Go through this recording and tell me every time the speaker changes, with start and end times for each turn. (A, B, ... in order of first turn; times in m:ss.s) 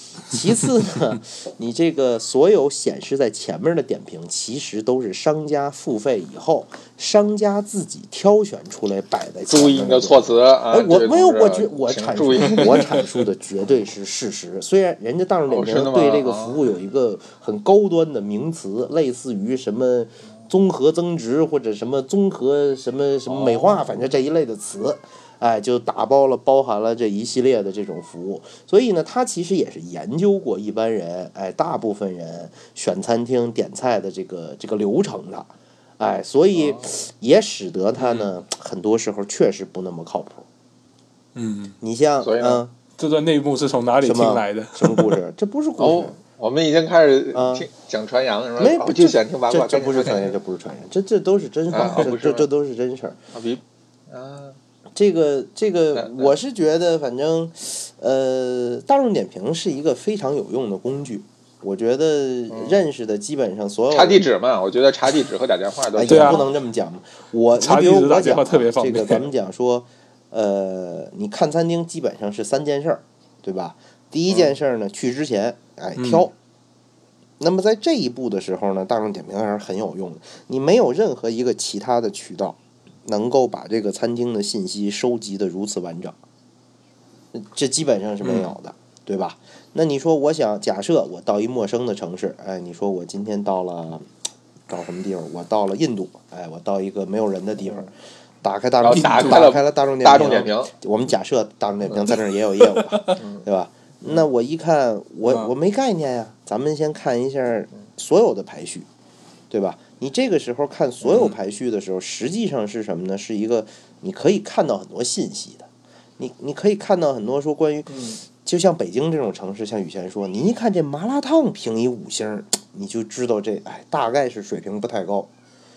0:00.3-0:40.5 A
0:09.5-0:12.9 B
0:15.5-0:16.6 B
0:23.2-0:24.1 B
0:36.5-0:36.8 B
0:38.0-0:38.3 C
0:41.3-0:41.8 C
0:41.8-0:42.7 A
0:42.2-0:42.6 B
0:43.0-0:45.2 C
0:44.0-0:46.1 A
0:45.8-0:50.3 B
0:47.3-0:47.7 A
0:48.6-0:53.2 A
0:51.7-0:52.5 B
0:53.3-0:54.6 B
0:54.9-1:04.3 A
0:56.0-0:56.3 B
1:02.5-1:02.8 B
1:03.9-1:06.5 B
1:05.9-1:16.3 A
1:06.1-1:06.4 C
1:07.6-1:09.2 C
1:14.3-1:14.5 B
1:16.0-1:16.3 C
1:17.4-1:26.2 A
1:27.3-1:34.0 A
1:28.2-1:28.5 C
1:34.7-1:37.9 A
1:38.4-1:48.9 A
1:38.8-1:40.7 B
1:38.9-1:39.5 C
1:42.6-1:43.2 C
1:43.2-1:43.4 B
1:49.5-2:05.3 A
1:51.0-1:51.3 B